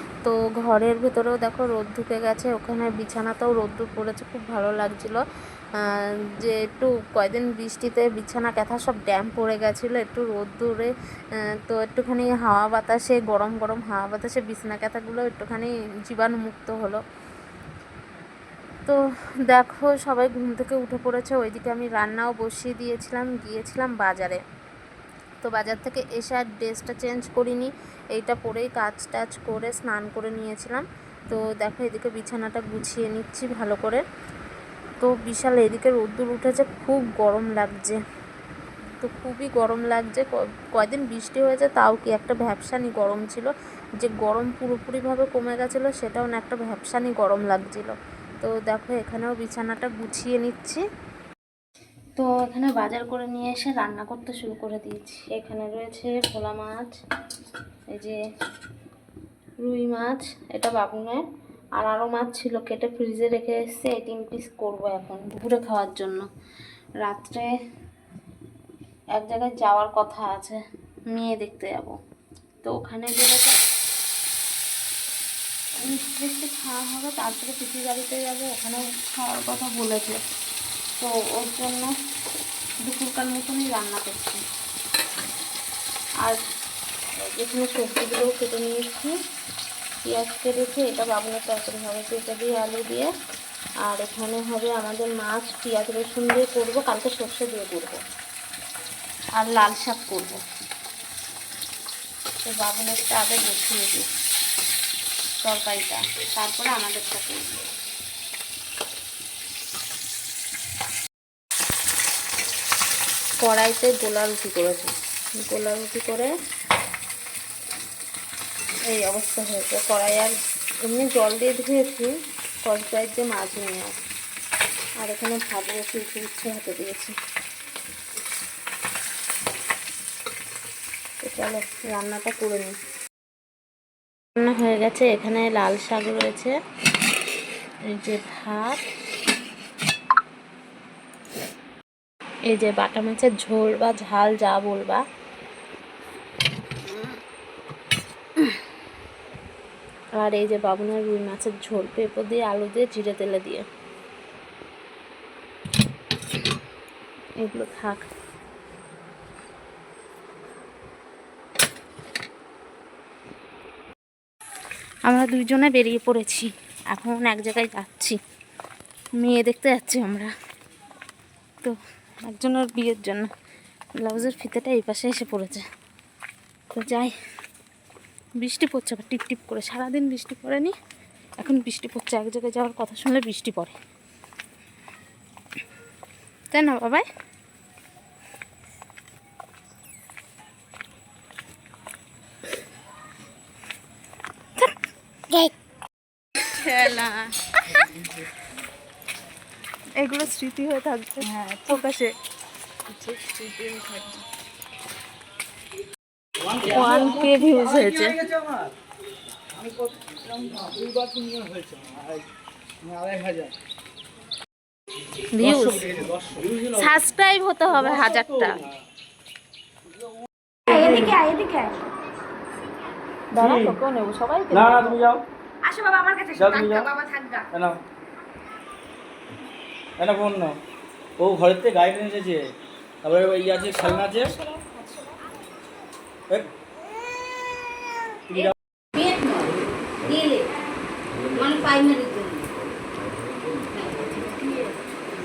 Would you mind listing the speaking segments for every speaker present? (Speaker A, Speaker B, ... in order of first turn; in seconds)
Speaker A: 0.2-5.2, 6.4-10.9, 11.6-17.0, 18.9-24.4, 25.4-34.0, 35.0-38.0, 39.0-50.8, 52.2-56.9, 59.6-61.2, 61.8-66.3, 67.0-67.5, 69.2-72.0, 72.6-73.5, 75.8-80.2, 81.0-81.9, 82.8-84.4, 87.2-89.2, 90.0-93.1, 93.8-98.0, 99.3-100.4, 102.4-104.1, 105.4-107.6, 113.4-116.3, 118.9-124.0, 125.0-127.1, 131.2-132.7, 134.4-136.5, 137.9-138.8, 142.5-145.0, 150.2-153.7, 157.4-158.0, 165.1-168.2, 169.2-170.3, 171.6-173.3, 174.0-175.7, 176.7-177.1, 178.4-180.7, 181.4-183.7, 186.5-187.1, 196.4-197.8, 200.0-202.1, 206.6-208.2, 215.3-216.0, 216.6-218.6, 223.3-225.0
Speaker B: 202.9-204.2, 220.7-221.9, 225.6-227.5, 234.1-235.2, 238.9-240.6, 241.3-242.5, 243.7-244.8
Speaker C: 206.7-207.1, 208.2-208.6, 210.5-212.0, 215.5-216.5, 223.4-223.8, 224.5-225.2, 226.3-226.9, 227.5-227.8, 230.0-230.6, 231.2-232.5, 233.0-234.4, 238.3-238.5